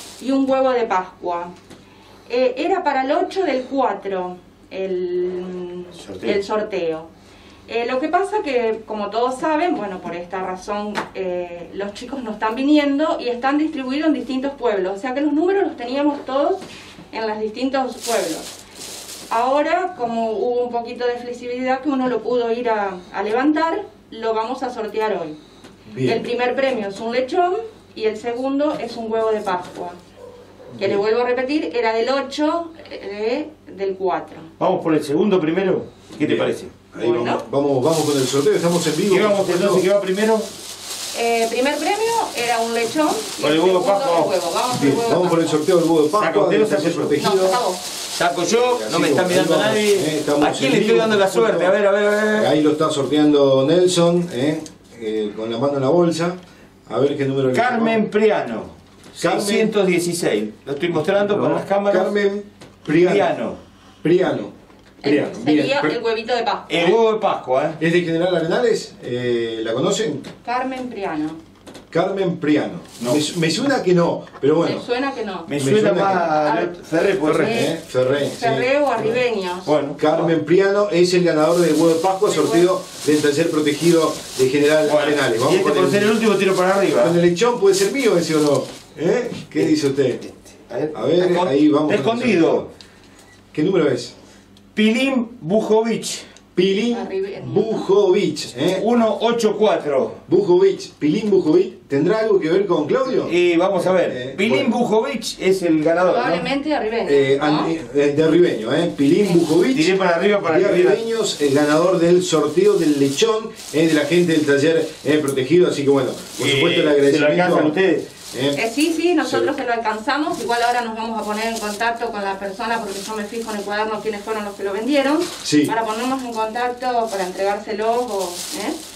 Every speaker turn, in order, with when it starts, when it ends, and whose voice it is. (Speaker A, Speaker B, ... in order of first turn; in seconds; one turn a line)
Speaker A: 0.2-1.5
Speaker A: 2.3-7.1
Speaker B: 5.9-6.4
Speaker A: 7.7-18.5
Speaker A: 19.3-25.4
Speaker C: 25.9-26.2
Speaker A: 26.0-29.9
Speaker A: 30.8-34.5
Speaker B: 34.6-36.8
Speaker C: 36.2-39.8
Speaker A: 36.9-37.4
Speaker B: 39.1-40.5
Speaker A: 41.1-45.6
Speaker B: 43.4-44.3
Speaker C: 44.7-47.6
Speaker B: 46.2-47.1
Speaker A: 47.2-47.8
Speaker B: 48.1-52.5
Speaker C: 48.5-51.8
Speaker C: 52.3-58.0
Speaker B: 57.5-62.1
Speaker C: 59.2-59.7
Speaker C: 61.2-63.3
Speaker B: 63.0-63.6
Speaker C: 64.0-65.9
Speaker A: 65.0-67.0
Speaker B: 66.7-67.8
Speaker C: 67.8-70.2
Speaker A: 70.4-71.4
Speaker C: 71.9-74.8
Speaker A: 74.6-75.5
Speaker B: 75.5-77.7
Speaker C: 75.5-76.3
Speaker A: 76.2-79.7
Speaker C: 77.2-79.2
Speaker B: 79.6-80.3
Speaker C: 80.0-86.2
Speaker A: 82.3-82.7
Speaker B: 84.8-87.2
Speaker C: 86.9-90.2
Speaker B: 90.7-92.7
Speaker C: 90.9-92.7
Speaker C: 93.5-94.1
Speaker B: 94.7-96.2
Speaker C: 96.5-98.8
Speaker A: 96.9-97.8
Speaker B: 98.5-100.2
Speaker C: 100.3-104.7
Speaker B: 103.2-106.4
Speaker A: 106.0-107.7
Speaker C: 107.0-109.9
Speaker B: 109.7-111.0
Speaker C: 110.4-117.7
Speaker B: 116.4-118.1
Speaker C: 118.3-118.6
Speaker A: 118.5-128.8
Speaker C: 119.2-119.5
Speaker C: 125.4-125.7